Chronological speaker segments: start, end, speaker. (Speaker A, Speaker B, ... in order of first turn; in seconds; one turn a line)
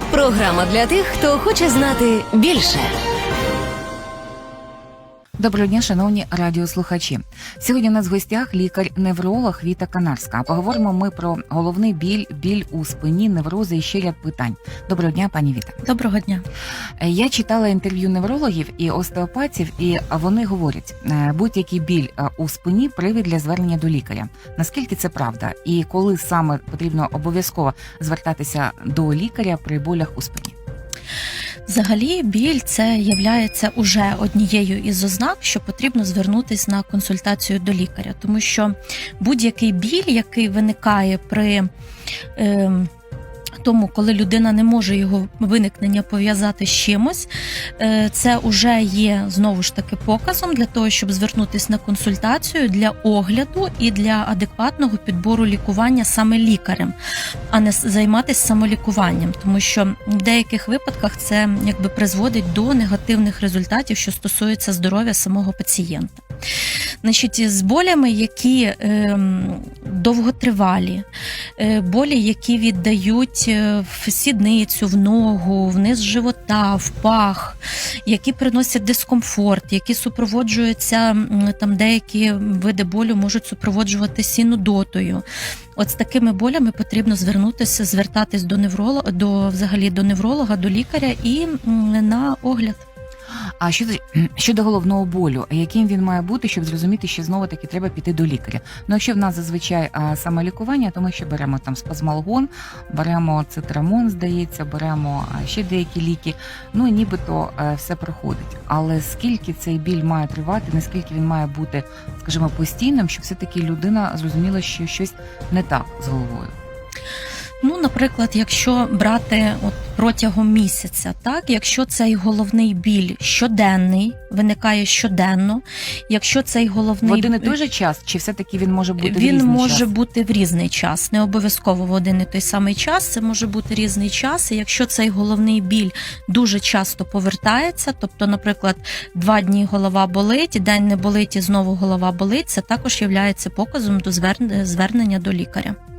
Speaker A: 0.1-2.9
Speaker B: 5.4-15.8
Speaker C: 15.8-16.4
Speaker B: 17.0-30.6
Speaker C: 31.7-41.7
Speaker C: 42.4-42.9
Speaker C: 43.6-56.9
Speaker C: 57.5-66.2
Speaker C: 67.0-71.0
Speaker C: 71.6-85.2
Speaker C: 85.8-92.8
Speaker B: 93.6-116.5
Speaker C: 117.6-127.5
Speaker B: 127.0-129.9
Speaker C: 129.0-145.8